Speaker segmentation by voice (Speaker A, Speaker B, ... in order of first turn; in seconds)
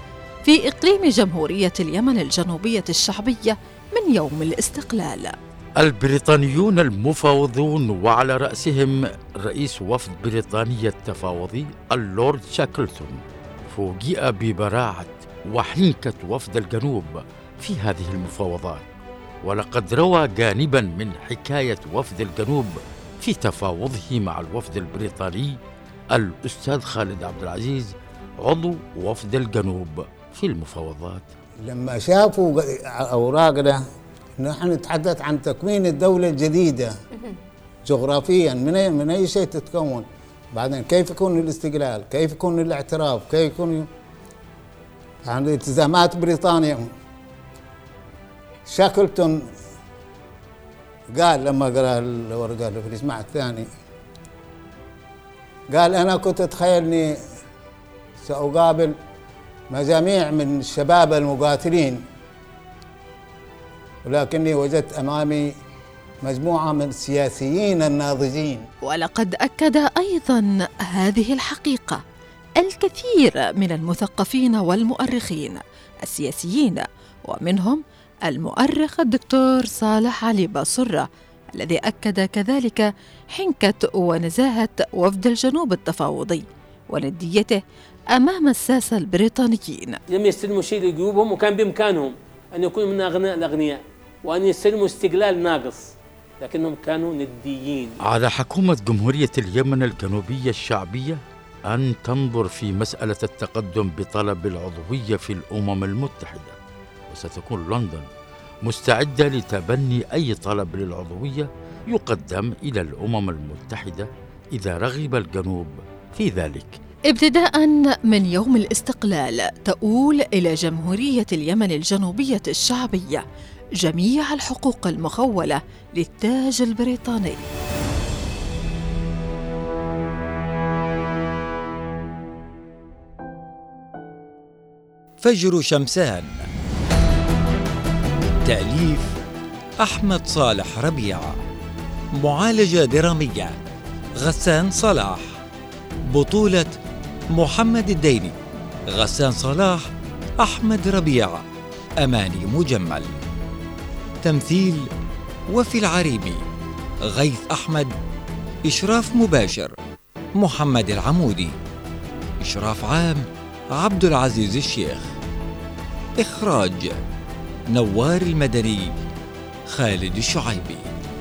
Speaker A: 0.4-5.3, 68.8-72.0, 72.6-87.6, 88.1-90.0, 117.1-123.2, 123.8-127.4
Speaker B: 5.8-18.9, 19.4-25.6, 26.1-31.2, 98.0-106.6, 107.1-108.1, 108.6-116.8
Speaker C: 31.6-33.8, 34.4-36.9, 37.8-43.9, 45.2-46.9, 48.7-49.4, 51.1-53.7, 55.7-57.1, 58.2-58.9, 59.7-62.0, 64.0-65.5, 66.2-68.7
Speaker D: 90.1-98.0
Speaker E: 135.2-136.5, 138.3-139.2, 139.8-141.4, 142.2-143.6, 144.2-145.4, 146.1-146.8, 147.3-148.4, 148.9-151.4, 152.0-153.2, 154.2-154.9, 155.5-156.5, 157.0-157.9, 158.7-159.8, 160.4-161.6, 162.4-165.1, 166.2-167.0, 167.7-168.9, 169.7-170.9